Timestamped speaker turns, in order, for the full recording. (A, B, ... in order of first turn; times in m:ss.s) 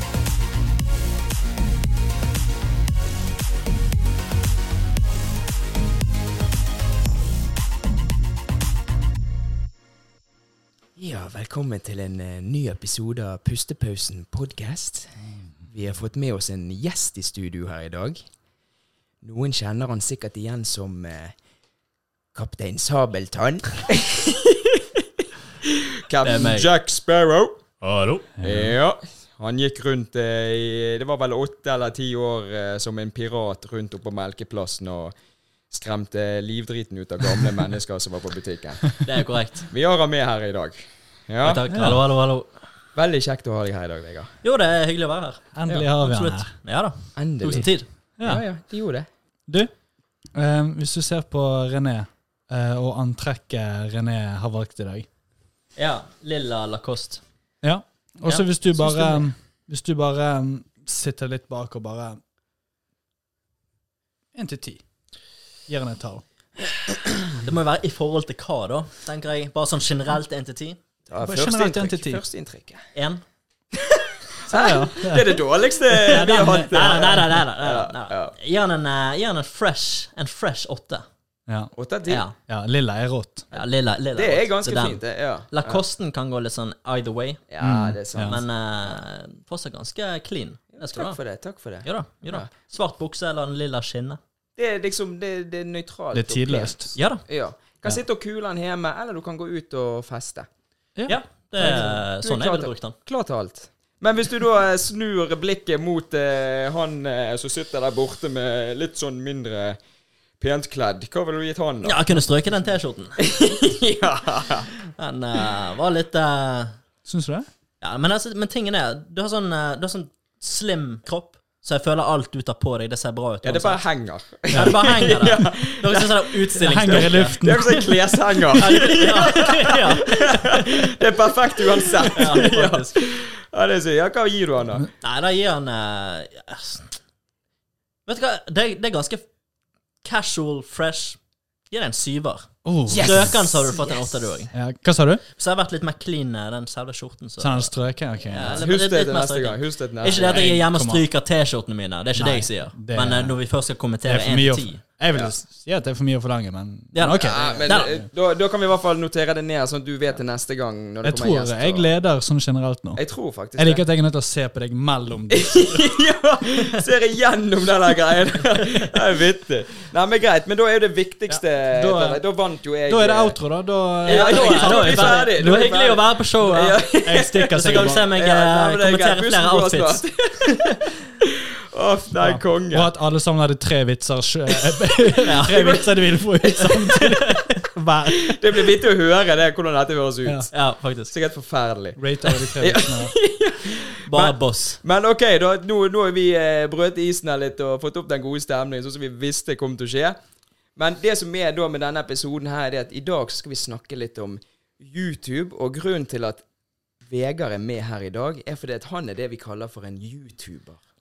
0:11.0-0:18.2 A
0:19.2-0:21.4 A
0:22.3-0:27.6 A
0:26.2-0:26.7 B
0:28.0-0:28.8 C
0:28.4-0:35.1 A
0:35.7-0:39.0 A
0:39.0-0:39.7 B
0:39.7-0:41.6 A
0:41.4-0:42.5 B
0:41.7-0:42.0 C
0:43.0-0:44.3 A
0:44.4-0:47.9 B
0:45.6-0:46.6 C
0:47.2-0:47.7 A
0:48.2-0:48.4 C
0:48.2-0:49.1 A
0:50.4-0:55.1 C
0:55.8-0:57.2 B
0:57.6-1:02.2 C
0:58.3-0:59.2 B
1:04.4-1:04.8 C
1:05.7-1:06.2 C
1:07.2-1:10.8 B
1:11.1-1:12.8 A
1:11.2-1:12.2 C
1:13.0-1:13.2 B
1:13.7-1:18.4 A
1:14.5-1:15.4 C
1:15.9-1:17.1 C
1:16.0-1:21.1 B
1:21.7-1:22.2 A
1:22.1-1:22.4 B
1:22.5-1:23.5 C
1:23.5-1:27.4 B
1:24.2-1:25.8 A
1:27.5-1:29.0 A
1:27.6-1:28.4 C
1:28.2-1:31.2 B
1:30.8-1:32.5 A
1:31.8-1:34.2 B
1:34.6-1:40.5 A
1:36.1-1:36.9 C
1:37.0-1:37.2 B
1:41.0-1:41.8 C
1:41.1-1:43.0 B
1:41.6-1:49.8 A
1:50.4-1:52.0 A
1:51.8-1:53.2 B
1:53.2-1:54.7 A
1:54.9-1:56.8 B
1:57.1-1:57.5 C
1:57.8-2:03.8 B
2:03.4-2:14.9 A
2:04.5-2:07.4 B
2:06.6-2:08.5 C
2:08.6-2:11.0 B
2:11.8-2:13.2 B
2:15.0-2:17.0 B
2:18.1-2:19.2 B
2:20.0-2:21.2 B
2:21.7-2:24.5 B
2:22.6-2:23.3 C
2:22.9-2:24.2 A
2:24.5-2:25.2 C
2:25.4-2:27.7 B
2:27.4-2:28.6 C
2:28.2-2:34.8 B
2:28.5-2:30.6 A
2:30.2-2:31.0 C
2:32.2-2:33.4 C
2:34.0-2:37.7 C
2:36.9-2:38.0 B
2:37.2-2:41.9 A
2:41.0-2:43.0 C
2:43.0-2:43.8 A
2:43.6-2:45.9 C
2:45.3-2:53.4 A
2:51.3-2:52.2 C
2:52.9-2:55.7 C
2:54.0-3:02.9 A
2:54.0-2:56.8 B
2:57.0-2:58.1 C
2:57.5-3:00.9 B
3:02.2-3:08.3 C
3:05.2-3:05.8 B
3:05.4-3:07.0 A
3:06.9-3:07.5 B
3:08.2-3:10.6 A
3:10.5-3:11.1 B
3:11.1-3:20.2 A
3:12.0-3:13.1 C
3:14.1-3:14.8 B
3:20.8-3:26.4 A
3:27.0-3:30.8 A